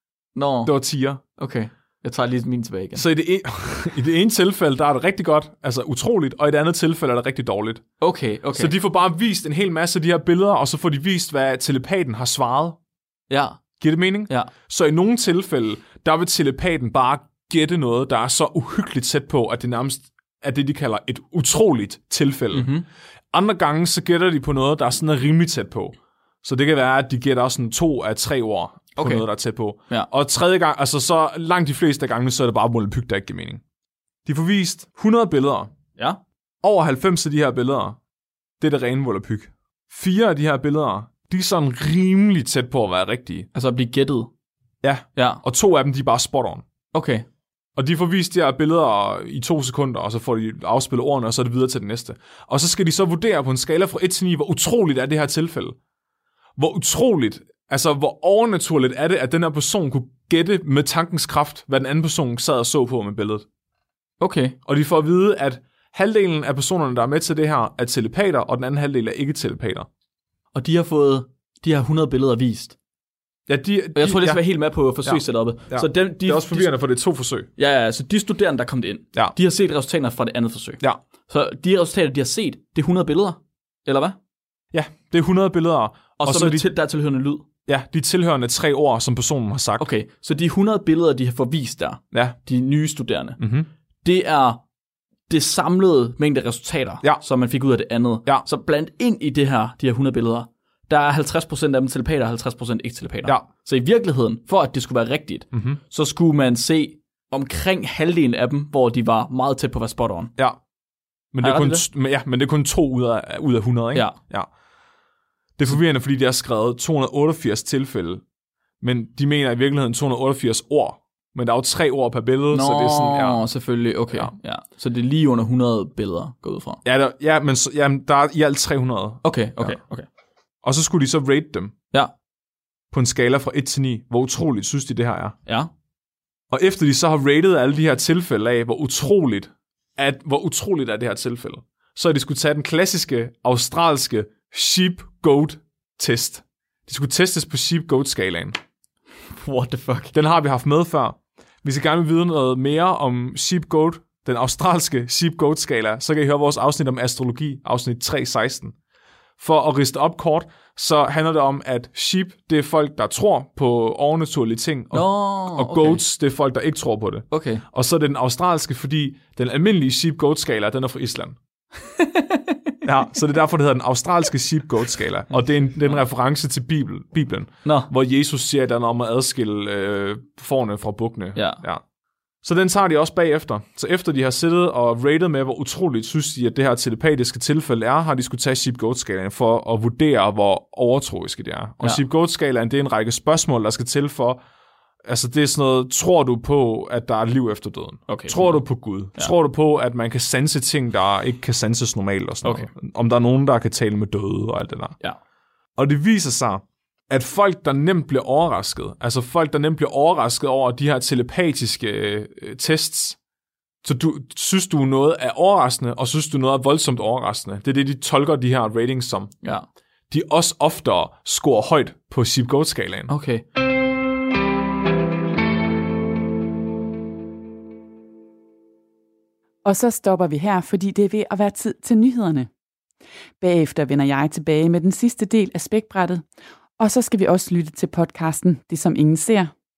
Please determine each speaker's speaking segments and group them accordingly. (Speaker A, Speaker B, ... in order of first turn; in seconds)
Speaker A: 0.3-0.7, 1.4-3.0, 8.0-8.7, 13.3-13.6, 22.5-22.9, 29.0-29.3, 36.0-36.2, 43.5-44.3, 45.2-45.4, 46.9-47.3, 64.2-64.6, 70.5-72.8, 74.0-76.7, 77.6-84.2, 86.2-87.5, 89.8-93.4, 94.0-94.6, 95.3-110.3, 111.4-111.8, 122.5-126.8, 129.2-130.1, 149.3-150.2, 164.9-166.0, 167.3-167.6, 171.8-172.7, 177.7-177.9, 181.3-181.6, 198.1-198.6, 223.1-223.4
Speaker B: 0.7-1.2, 3.0-7.8, 8.5-12.8, 13.8-22.7, 23.3-33.6, 34.3-35.7, 36.6-38.0, 38.6-43.5, 44.8-46.6, 47.8-55.8, 56.6-63.5, 64.7-69.9, 73.5-74.4, 75.0-77.5, 84.7-86.7, 87.7-89.9, 92.1-92.4, 93.4-93.7, 105.5-105.8, 111.3-114.5, 115.6-118.2, 118.8-123.4, 126.8-129.8, 130.6-131.8, 132.9-135.4, 136.5-148.6, 150.1-158.7, 159.4-171.4, 172.8-181.8, 182.4-194.4, 195.1-205.0, 205.8-213.2, 213.8-219.3, 220.1-223.1
Speaker C: 229.7-232.5, 233.4-236.2, 236.8-239.5